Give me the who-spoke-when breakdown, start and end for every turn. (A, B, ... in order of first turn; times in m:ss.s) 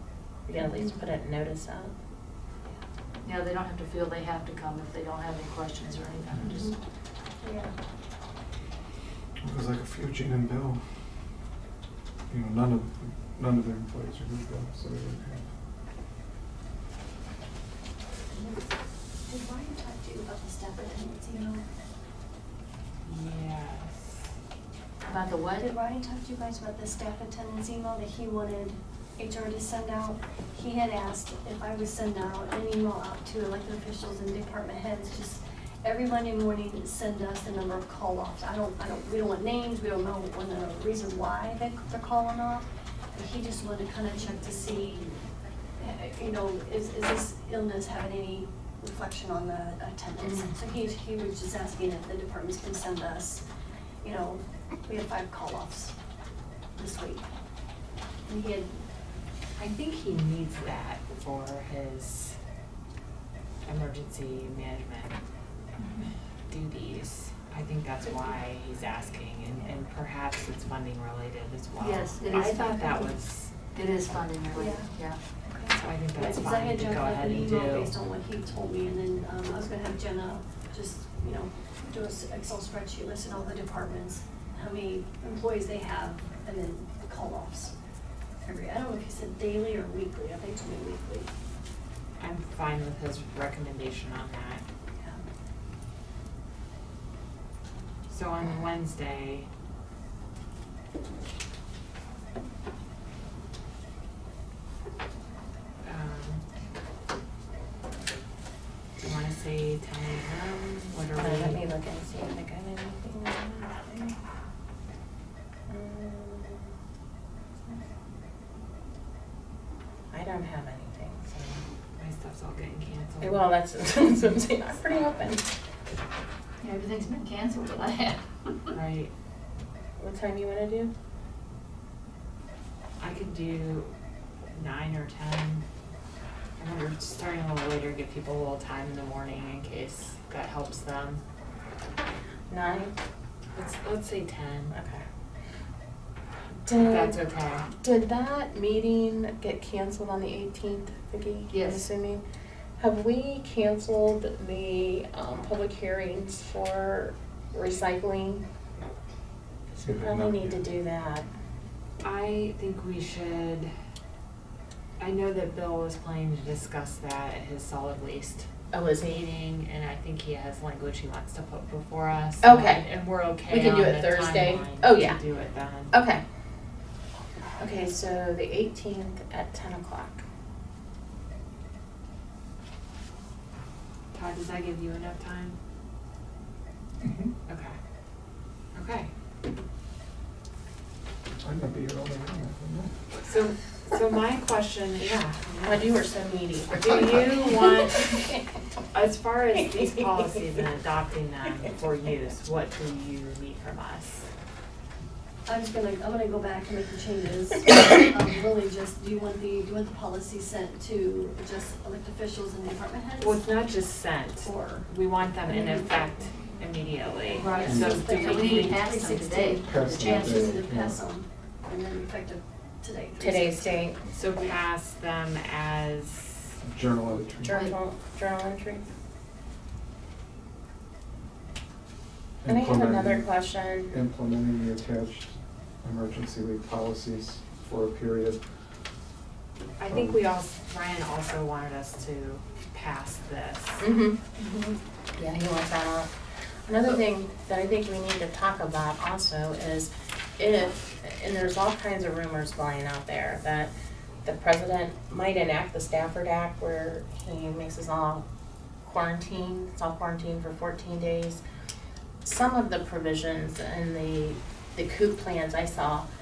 0:00.4-0:01.9 A
0:00.6-0:01.0 B
0:03.2-0:06.7 C
0:06.4-0:06.7 B
0:07.4-0:07.7 B
0:09.4-0:10.8 D
0:12.3-0:15.4 D
0:18.3-0:18.6 B
0:19.2-0:21.6 B
0:23.0-0:24.2 E
0:25.1-0:25.7 C
0:25.6-0:45.0 B
0:45.8-0:53.4 B
0:50.2-0:50.5 A
0:54.0-0:55.9 B
0:56.8-0:57.3 B
0:58.2-0:58.8 B
0:59.6-1:02.4 E
1:03.6-1:05.2 E
1:05.8-1:06.1 C
1:06.5-1:13.5 E
1:11.8-1:13.1 C
1:13.6-1:15.2 C
1:14.5-1:14.9 B
1:15.5-1:27.7 B
1:15.7-1:17.9 E
1:28.4-1:31.3 B
1:32.2-1:34.6 E
1:35.0-1:35.2 B
1:38.1-1:39.5 E
1:45.8-1:46.4 E
1:49.0-1:51.6 E
1:51.2-1:54.2 A
1:55.7-1:56.7 A
2:00.1-2:01.6 A
2:02.0-2:03.5 E
2:03.2-2:05.4 A
2:06.6-2:08.7 C
2:08.7-2:09.1 E
2:10.0-2:10.9 A
2:13.0-2:13.9 E
2:14.5-2:15.6 E
2:16.6-2:21.2 E
2:22.5-2:22.9 A
2:23.5-2:24.7 E
2:24.7-2:25.0 A
2:26.6-2:27.2 A
2:26.7-2:27.7 E
2:27.7-2:32.2 A
2:31.5-2:31.8 C
2:32.8-2:38.4 A
2:39.7-2:41.2 A
2:39.8-2:40.7 D
2:42.0-2:43.7 E
2:45.0-2:48.5 E
2:48.7-2:49.2 A
2:49.0-2:55.9 E
2:52.4-2:52.9 A
2:53.4-2:55.2 A
2:55.9-2:56.2 A
2:57.6-3:00.2 A
3:04.1-3:05.6 E
3:07.0-3:07.3 D
3:07.5-3:07.8 E
3:08.7-3:09.1 E
3:11.4-3:12.9 D
3:13.2-3:15.9 E
3:15.6-3:18.4 A
3:16.8-3:18.2 E
3:18.9-3:24.3 E
3:19.8-3:20.1 A
3:25.4-3:33.4 B
3:33.2-3:38.8 E
3:34.4-3:34.9 B
3:35.4-3:35.9 B
3:37.3-3:43.8 B
3:37.4-3:40.6 C
3:37.6-3:38.0 D
3:39.6-3:41.0 D
3:43.2-3:44.0 A
3:44.1-3:46.5 E
3:46.6-3:47.6 D
3:47.4-3:48.8 A
3:52.4-3:53.3 D
3:52.4-3:53.9 A
3:53.9-3:58.4 D
3:59.8-4:03.8 E
3:59.9-4:00.1 D
4:03.8-4:04.6 A
4:05.2-4:06.1 A
4:06.7-4:13.7 A
4:14.2-4:18.2 A
4:18.8-4:21.4 A
4:22.2-4:26.0 A